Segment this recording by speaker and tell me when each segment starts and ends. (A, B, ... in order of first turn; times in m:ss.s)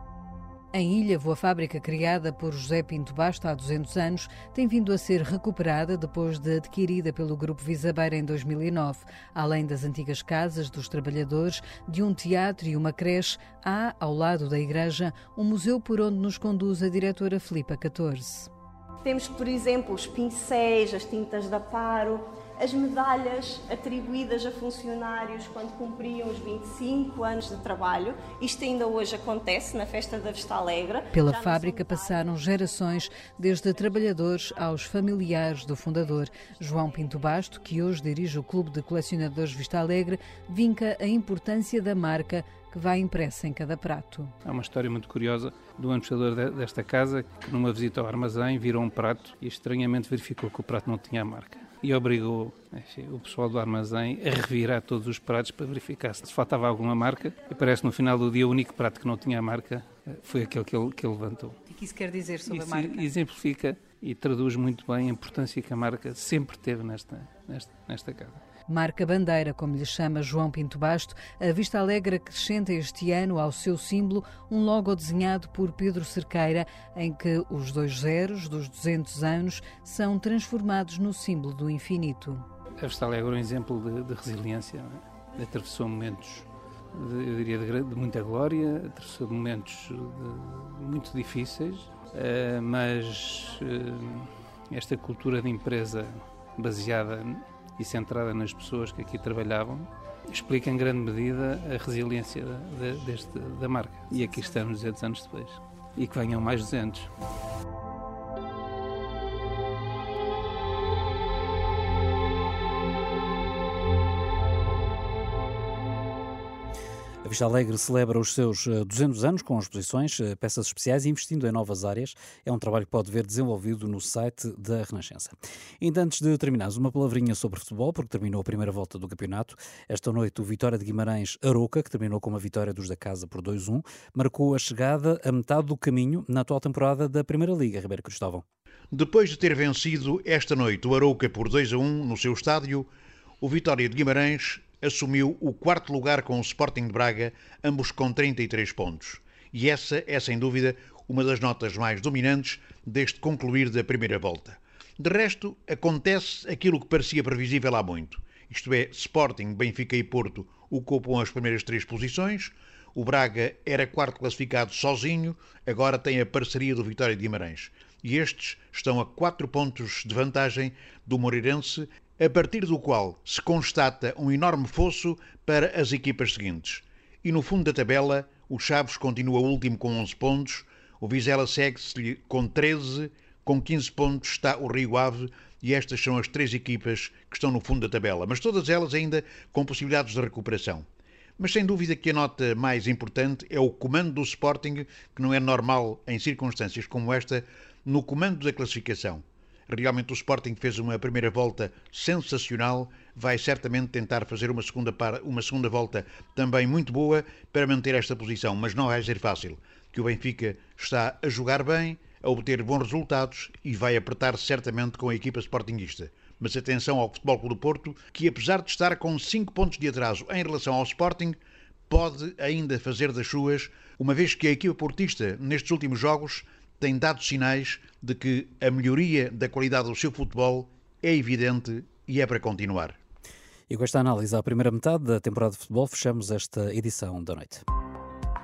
0:00.7-0:18.5 A
0:19.0-0:32.6 B
0:31.1-0:44.3 A
0:44.4-1:01.6 C
1:01.7-1:03.1 A
1:02.5-1:08.4 C
1:08.7-1:22.4 A
1:22.8-1:47.1 C
1:57.2-2:18.4 D
2:18.9-2:22.9 E
2:23.4-3:10.9 E
3:11.4-3:53.0 E
3:53.7-3:57.6 D